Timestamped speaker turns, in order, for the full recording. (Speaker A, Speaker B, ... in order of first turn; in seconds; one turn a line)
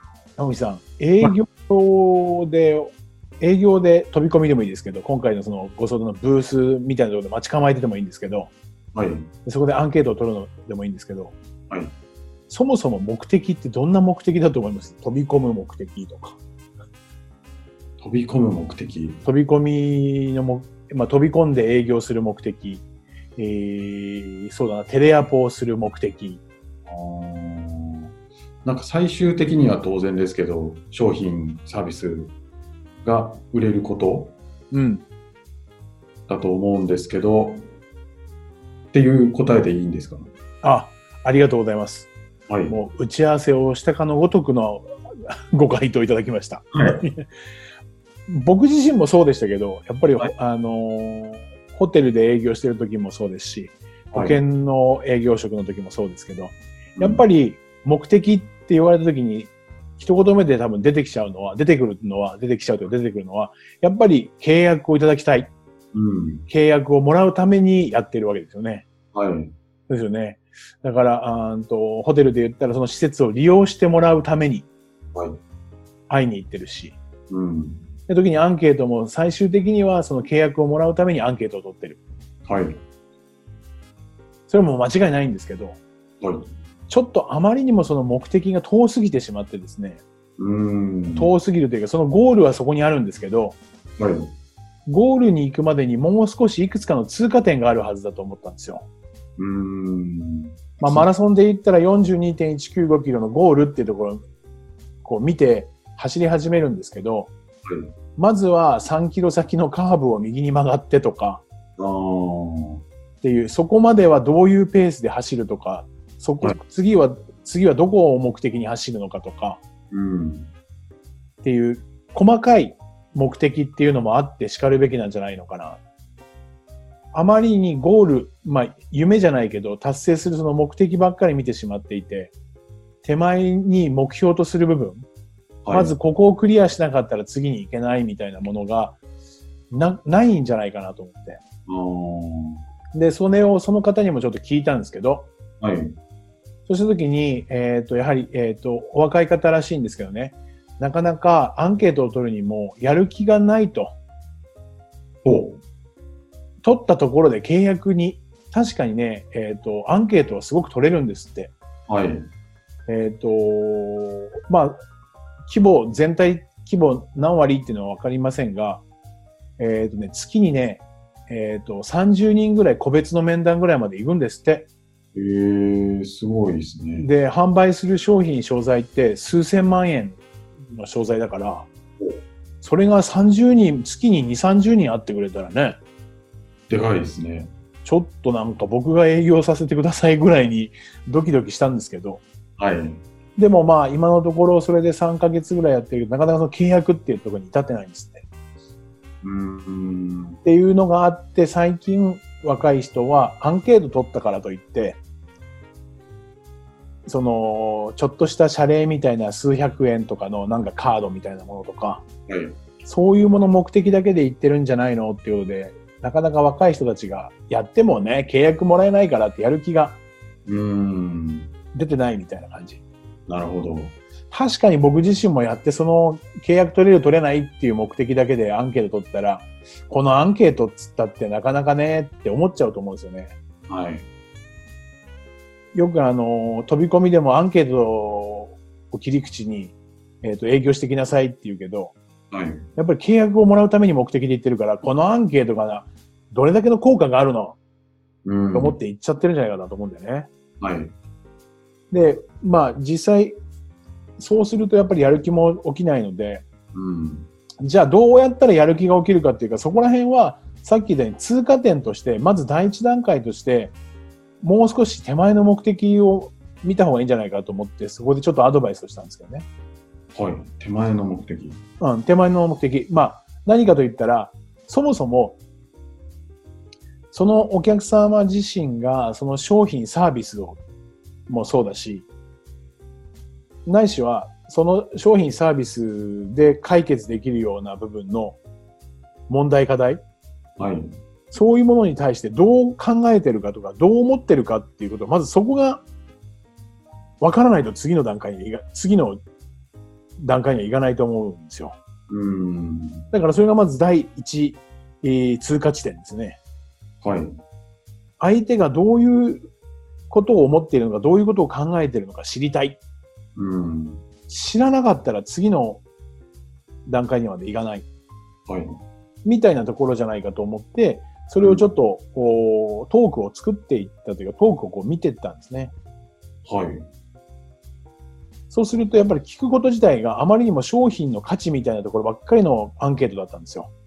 Speaker A: 0.4-8.5
Speaker B: 8.9-9.3
Speaker A: 9.4-11.4
Speaker A: 12.5-16.4
Speaker B: 18.0-19.2
Speaker A: 19.2-22.8
Speaker A: 23.4-26.4
Speaker B: 26.9-28.1
Speaker B: 28.6-32.3
Speaker B: 33.0-34.4
Speaker A: 34.7-35.0
Speaker B: 36.3-37.7
Speaker B: 38.9-40.3
Speaker A: 40.6-42.1
Speaker B: 42.5-42.8
Speaker A: 42.7-47.2
Speaker B: 46.7-47.0
Speaker A: 48.3-65.5
Speaker B: 54.1-54.4
Speaker B: 57.0-57.2
Speaker B: 65.9-66.5
Speaker A: 66.5-68.9
Speaker B: 69.1-69.5
Speaker A: 69.9-74.7
Speaker A: 76.1-77.0
Speaker B: 77.3-77.8
Speaker A: 78.1-82.0
Speaker B: 82.5-82.8
Speaker A: 84.5-85.8
Speaker B: 86.2-86.5
Speaker A: 86.9-90.0
Speaker B: 90.4-91.3
Speaker A: 91.1-93.6
Speaker B: 94.0-94.3
Speaker A: 94.9-98.8
Speaker B: 99.4-101.1
Speaker A: 100.8-104.2
Speaker A: 105.0-107.3
Speaker B: 107.7-107.9
Speaker A: 108.2-111.4
Speaker B: 111.8-112.8
Speaker A: 113.2-119.6
Speaker B: 119.9-120.5
Speaker A: 121.4-125.8
Speaker A: 127.1-132.3
Speaker A: 133.0-135.1
Speaker B: 135.7-135.9
Speaker A: 135.7-139.0
Speaker A: 139.7-141.4
Speaker B: 141.7-142.6
Speaker A: 142.9-145.3
Speaker B: 145.6-146.0
Speaker A: 146.7-154.0
Speaker B: 155.2-155.6
Speaker A: 156.6-161.5
Speaker B: 161.9-162.3
Speaker A: 162.9-164.8
Speaker A: 165.5-168.8
Speaker A: 169.6-174.7
Speaker B: 175.2-177.1
Speaker A: 177.0-181.7
Speaker A: 182.6-185.8
Speaker B: 186.7-187.5
Speaker A: 187.8-192.2
Speaker B: 192.6-193.0
Speaker A: 193.4-198.2
Speaker B: 199.2-200.4
Speaker A: 200.4-205.0
Speaker A: 207.1-212.0
Speaker B: 212.3-212.6
Speaker A: 212.8-220.0
Speaker B: 220.5-221.5
Speaker A: 221.7-222.8
Speaker B: 223.3-223.9
Speaker A: 224.3-233.3
Speaker B: 233.7-234.1
Speaker A: 235.8-241.9
Speaker B: 242.3-242.7
Speaker A: 242.8-247.6
Speaker B: 248.2-248.8
Speaker A: 248.5-250.3
Speaker B: 250.6-250.9
Speaker A: 251.9-253.4
Speaker A: 254.2-256.4
Speaker B: 256.7-257.3
Speaker A: 257.6-263.8
Speaker A: 264.4-269.5
Speaker B: 270.1-271.6
Speaker A: 271.8-275.4
Speaker A: 277.1-280.6
Speaker A: 281.3-282.1
Speaker A: 283.7-288.4
Speaker A: 289.3-290.0
Speaker B: 290.6-290.9
Speaker A: 291.3-295.8
Speaker A: 297.2-299.2
Speaker A: 300.2-301.8
Speaker B: 302.1-303.1
Speaker A: 303.1-306.4
Speaker B: 307.0-307.4
Speaker A: 308.2-309.5
Speaker A: 310.1-312.8
Speaker B: 313.4-314.0
Speaker A: 314.3-315.8
Speaker A: 316.9-317.9
Speaker B: 318.5-318.8
Speaker A: 319.2-325.7
Speaker B: 326.4-326.9
Speaker A: 328.5-333.7